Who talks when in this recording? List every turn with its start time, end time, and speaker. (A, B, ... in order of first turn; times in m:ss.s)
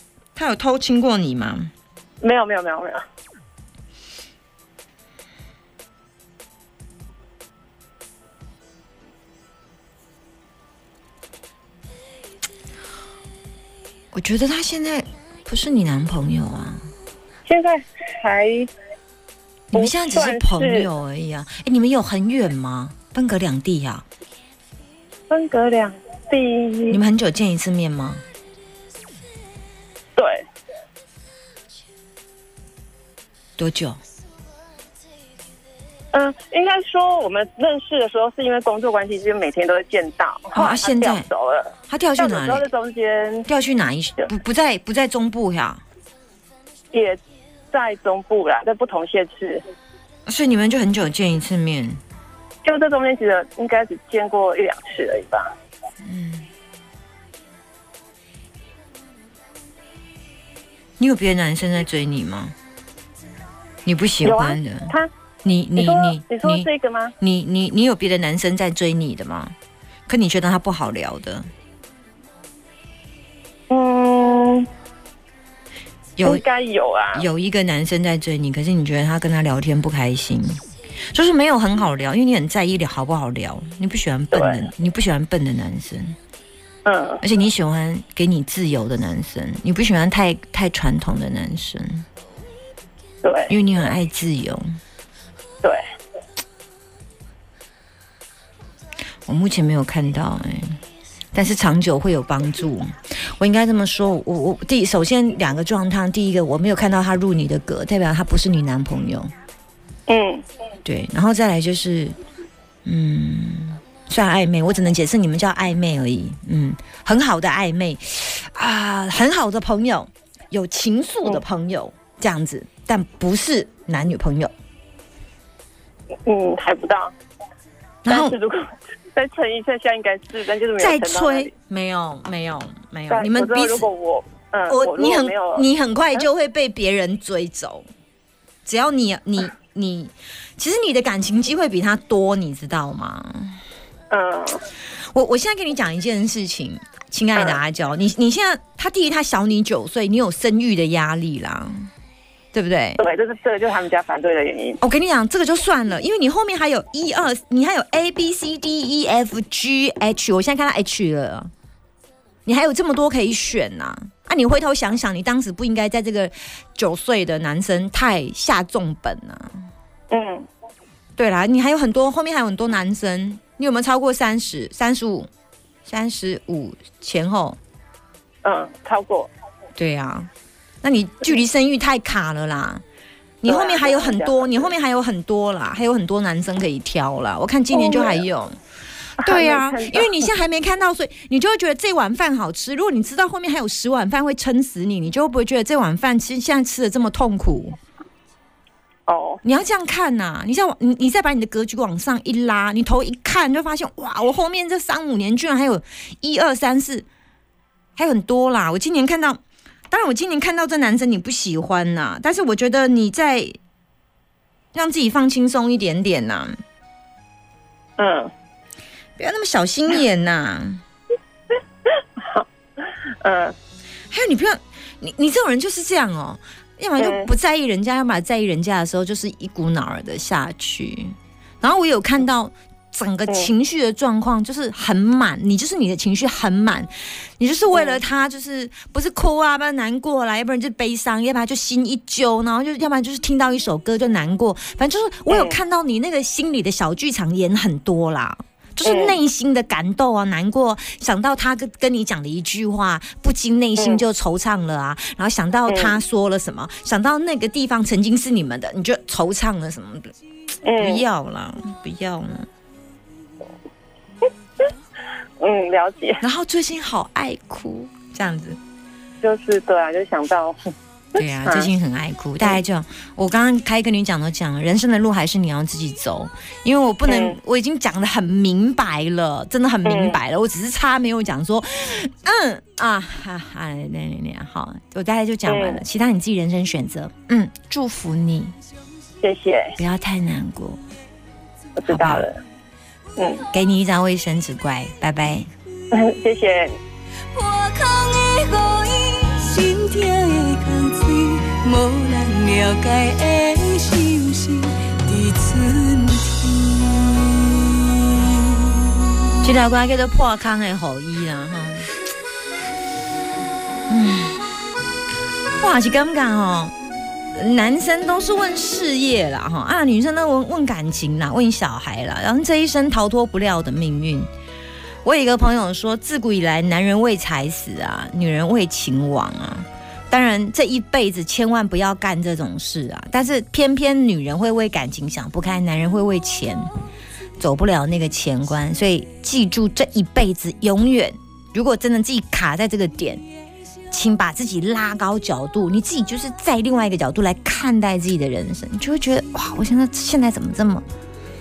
0:00.4-0:01.7 A
0:02.2-0:03.0 B
0:14.1-0:16.9 A
0:17.5-0:18.7 B
0:19.7-0:20.9 B
0:19.7-0:24.0 A
0:25.3-0:27.0 B
0:26.9-0:28.2 A
0:30.2-0:30.5 B
0:33.6-0:34.0 A
0:36.1-0:43.5 B
0:40.6-0:41.2 A
0:41.9-0:42.6 A
0:43.5-0:45.8 A
0:46.9-0:47.2 B
0:47.7-0:49.6 B
0:50.2-0:52.0 A
0:52.6-0:55.5 B
0:56.0-0:56.5 A
1:01.0-1:02.6 A
1:03.8-1:06.7 A
1:04.2-1:05.1 B
1:05.8-1:07.2 B
1:07.2-1:09.5 A
1:10.1-1:11.5 A
1:13.7-1:14.7 B
1:16.2-1:16.4 A
1:16.2-1:17.2 B
1:17.1-1:20.6 A
1:21.1-1:26.2 A
1:24.3-1:24.7 B
1:26.8-1:27.2 B
1:27.2-1:32.1 A
1:33.2-1:33.5 B
1:33.5-1:34.8 A
1:39.2-1:40.8 A
1:41.3-1:49.3 A
1:50.1-1:50.4 B
1:50.8-1:52.2 A
1:52.8-2:04.5 A
2:06.2-2:07.1 B
2:08.0-2:08.4 A
2:08.1-2:11.5 B
2:10.8-2:13.9 A
2:13.1-2:15.6 B
2:14.7-2:17.9 A
2:18.6-2:23.6 A
2:24.1-2:24.6 B
2:25.0-2:31.9 A
2:27.4-2:27.6 B
2:32.5-2:33.0 A
2:33.0-2:34.8 B
2:34.8-2:41.5 A
2:42.5-2:49.5 A
2:50.1-2:50.5 B
2:51.2-2:55.3 A
2:55.8-2:57.6 A
2:58.4-2:59.3 B
2:59.8-3:00.3 A
3:00.8-3:02.8 A
3:03.4-3:08.6 A
3:03.5-3:04.7 B
3:07.7-3:08.2 B
3:09.2-3:17.8 A
3:09.2-3:10.3 B
3:19.1-3:19.4 B
3:19.4-3:27.0 A
3:28.0-3:33.6 A
3:34.7-3:36.6 A
3:38.0-3:38.3 B
3:39.2-3:40.8 A
3:41.9-3:43.5 B
3:44.1-4:20.1 A
3:47.0-3:47.3 B
3:57.7-3:58.0 B
4:05.3-4:05.6 B
4:08.8-4:09.2 B
4:13.8-4:14.0 B
4:15.7-4:16.0 B
4:20.6-4:21.0 B
4:20.8-4:22.5 A
4:25.4-4:26.2 B
4:26.2-4:28.6 A
4:29.2-4:30.7 B
4:31.2-4:48.6 A
4:31.4-4:31.7 B
4:37.0-4:37.4 B
4:39.8-4:40.2 B
4:45.5-4:45.8 B
4:49.2-4:49.8 B
4:49.8-4:50.8 A
4:51.8-4:52.4 B
4:51.9-4:52.3 A
4:53.2-4:53.5 B
4:53.5-4:55.5 A
4:55.9-4:56.8 B
4:57.3-5:09.0 C
5:09.4-5:11.9 A
5:13.9-5:14.4 A
5:15.6-5:16.8 A
5:17.3-5:24.3 A
5:25.0-5:36.7 A
5:37.4-5:43.2 A
5:43.9-5:50.8 A